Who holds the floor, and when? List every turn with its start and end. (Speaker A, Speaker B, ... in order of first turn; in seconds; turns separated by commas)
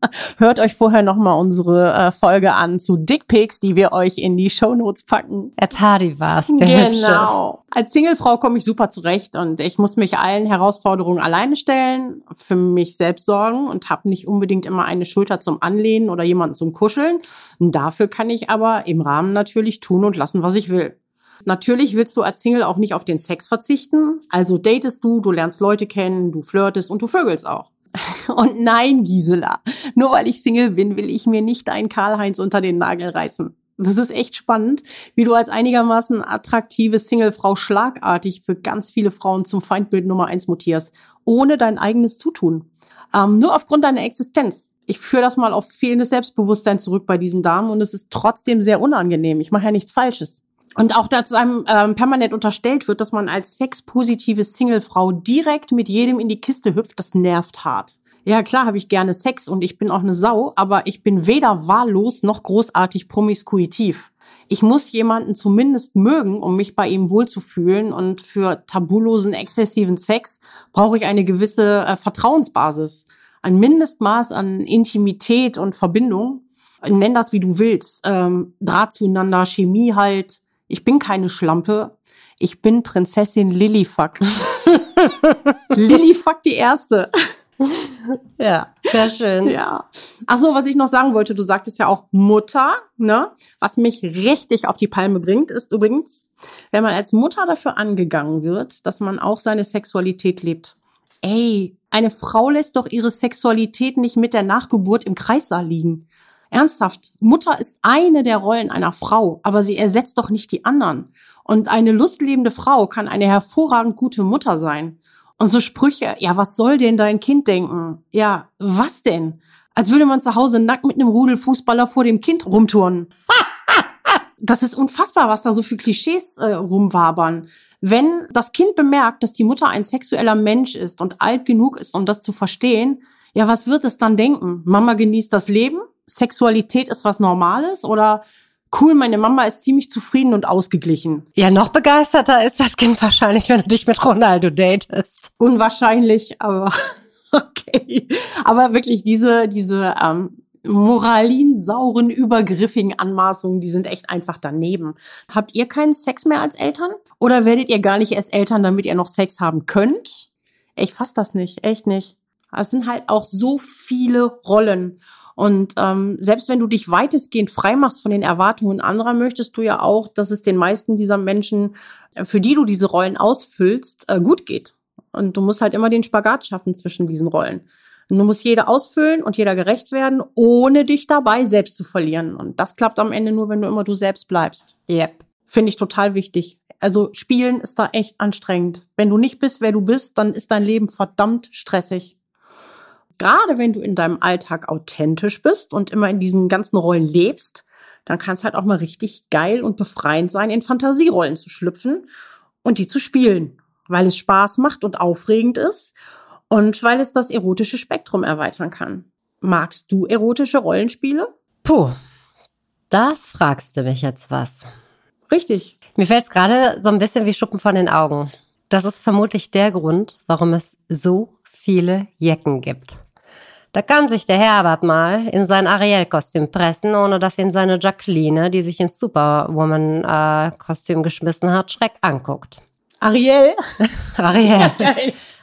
Speaker A: 0.4-5.5, Speaker B: 5.6-7.3, Speaker A: 6.5-84.3, Speaker B: 84.7-85.2, Speaker A: 85.7-87.1, Speaker B: 88.1-89.6, Speaker A: 89.4-123.1, Speaker A: 124.4-141.2, Speaker B: 141.4-145.3, Speaker A: 145.4-146.7, Speaker A: 147.3-184.7, Speaker B: 184.9-185.2, Speaker A: 185.5-192.1, Speaker A: 193.2-202.1, Speaker A: 202.6-205.9, Speaker A: 206.5-211.3, Speaker B: 211.6-211.9, Speaker B: 212.9-214.7, Speaker A: 215.3-215.8, Speaker B: 215.9-223.0, Speaker B: 223.7-232.6, Speaker A: 233.0-233.6, Speaker B: 234.1-234.9, Speaker A: 234.4-235.1